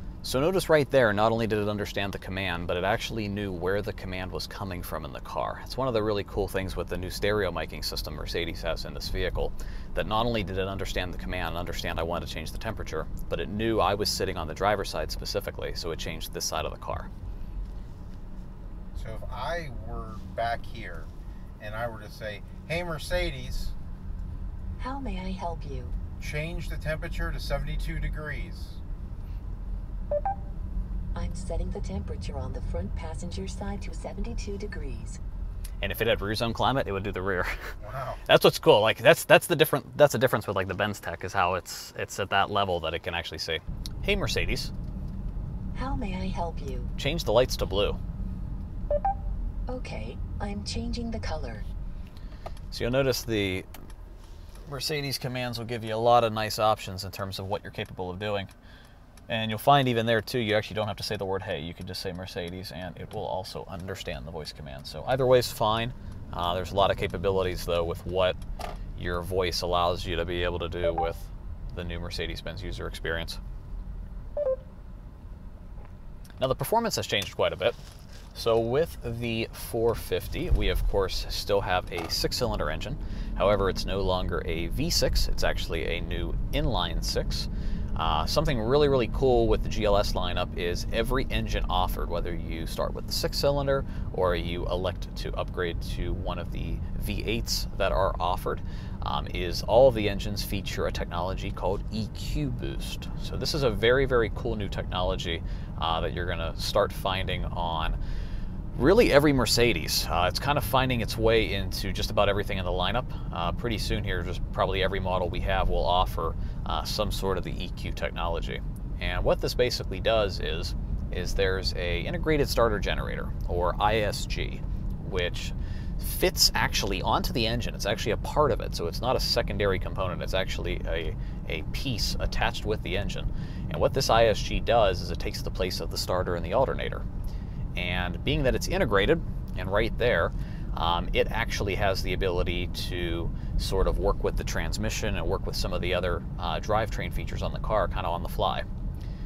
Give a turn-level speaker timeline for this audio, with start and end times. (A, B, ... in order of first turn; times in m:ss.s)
0:00.2-0:17.1 A
0:18.9-0:23.7 B
0:24.8-0:26.0 C
0:26.2-0:28.8 B
0:31.2-0:35.2 C
0:35.8-0:37.5 A
0:37.8-0:38.2 B
0:38.3-0:44.7 A
0:45.7-0:46.9 C
0:47.0-0:48.0 A
0:49.7-0:51.7 C
0:52.7-0:53.7 A
0:54.7-0:58.5 A
0:59.3-1:08.4 A
1:09.0-1:13.4 A
1:16.4-1:17.8 A
1:18.3-1:48.0 A
1:48.7-2:17.0 A
2:17.8-2:28.6 A